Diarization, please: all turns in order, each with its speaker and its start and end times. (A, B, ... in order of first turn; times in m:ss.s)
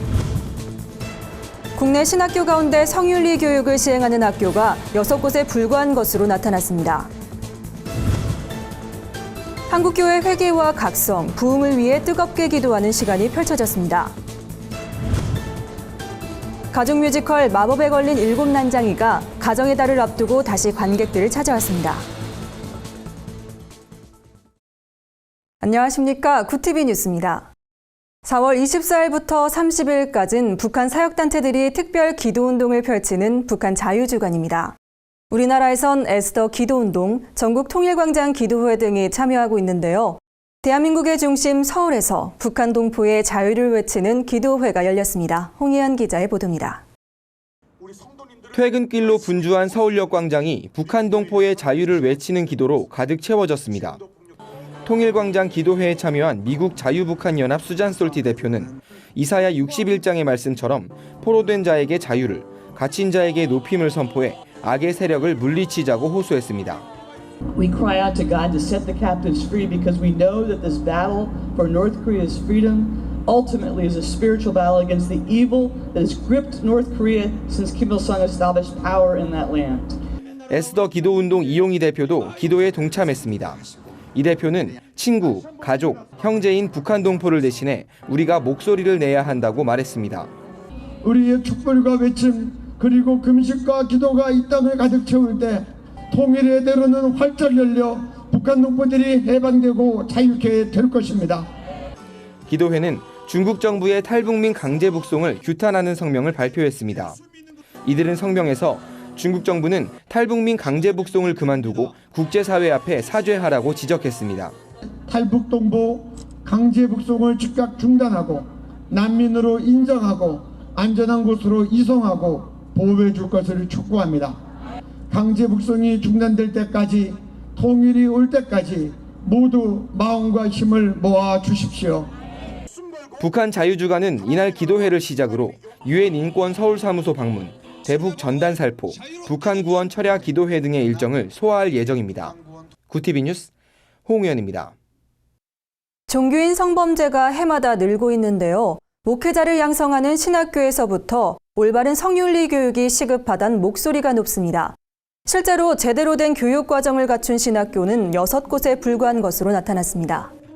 0:01.8-0:07.1 A
0:09.7-0:14.1 A
0:16.7-0:22.1 A
0:25.6-0:27.5 A
0:28.2-0:34.8 A
0:35.3-0:46.8 A
0:48.5-0:54.0 B
0:54.8-1:06.9 B
1:07.5-1:20.0 C
1:20.5-1:23.6 B
1:24.1-1:30.3 B
1:31.0-1:41.5 D
1:42.5-1:47.2 B
1:47.8-1:54.6 B
1:55.1-2:04.4 D
2:05.1-2:12.1 D
2:13.2-2:22.4 B
2:22.9-2:23.5 B
2:24.1-2:24.8 B
2:26.1-2:40.3 A